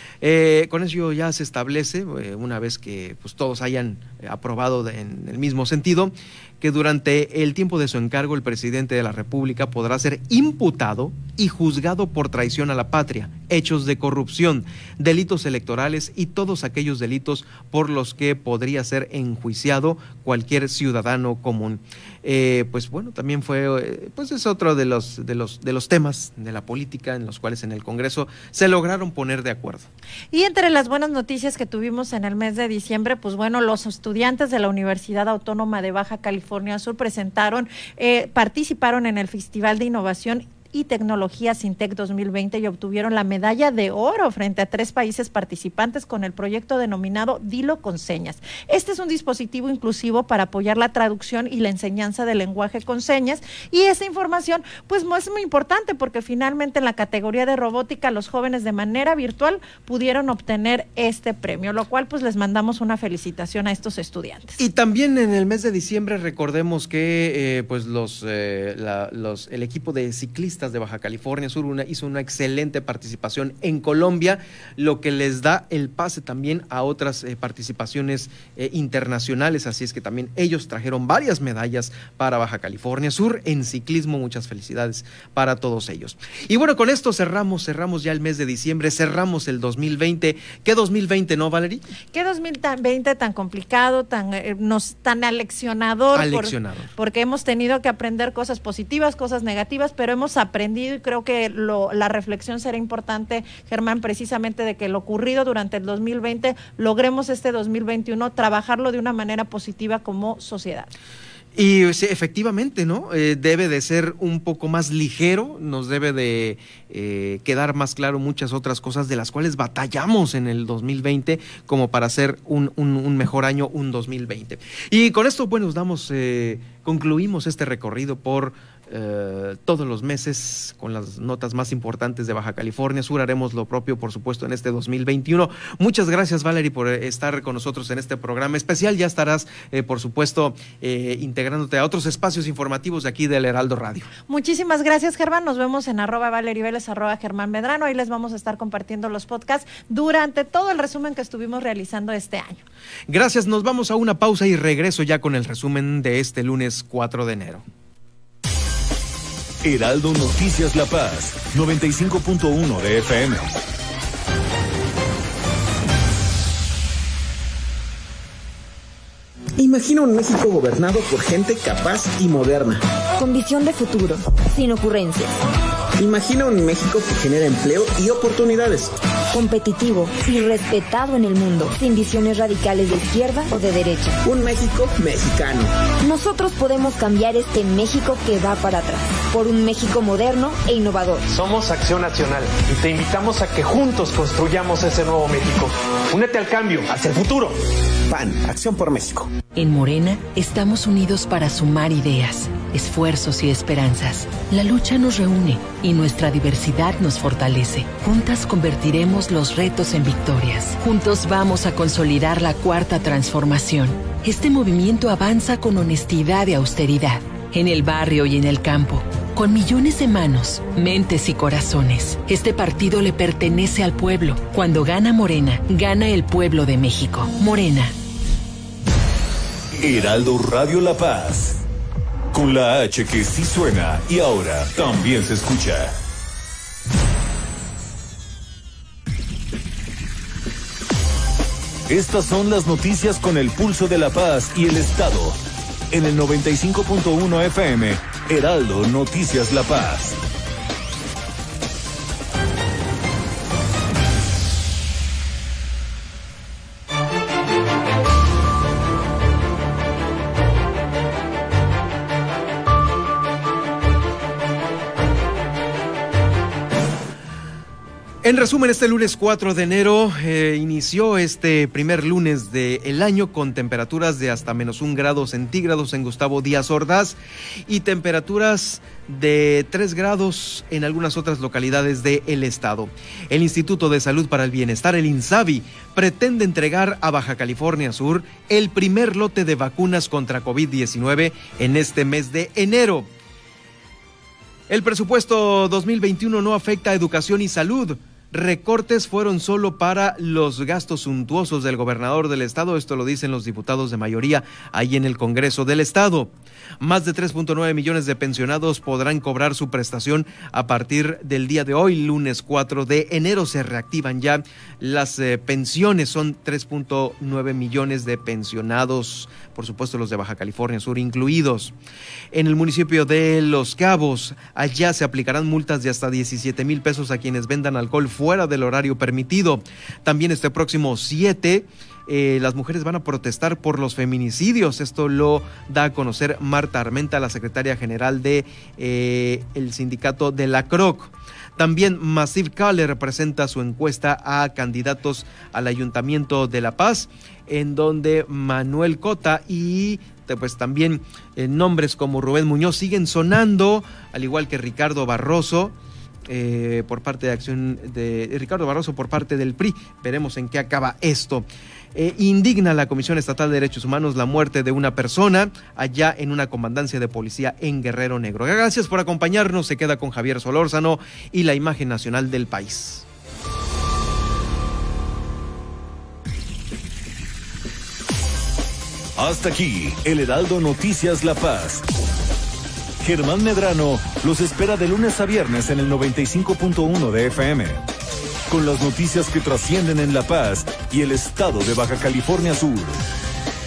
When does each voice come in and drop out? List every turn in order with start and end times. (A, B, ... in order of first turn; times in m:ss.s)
0:00.2-0:29.9 A
0:30.3-1:04.6 B
1:04.6-1:31.9 A
1:32.1-1:50.9 B
1:36.1-1:36.9 A
1:51.6-2:24.1 A
2:24.3-2:32.6 B
2:33.1-2:37.6 A
2:39.6-2:43.5 C
2:49.6-2:52.8 D
2:53.2-2:55.3 E
2:56.0-2:58.9 D
2:59.3-3:04.2 E
3:04.2-3:05.7 D
3:06.0-3:11.2 E
3:11.3-3:17.6 F
3:18.1-3:19.3 D
3:19.5-3:47.9 G
3:49.8-3:51.6 C
3:52.3-3:56.0 C
4:01.9-4:05.4 C
4:05.9-4:10.2 C
4:28.2-4:53.1 A
4:54.7-5:21.8 A
5:22.3-5:55.8 A
5:56.3-6:13.0 A
6:19.2-6:21.9 C
6:23.0-6:27.8 C
6:28.5-6:33.0 C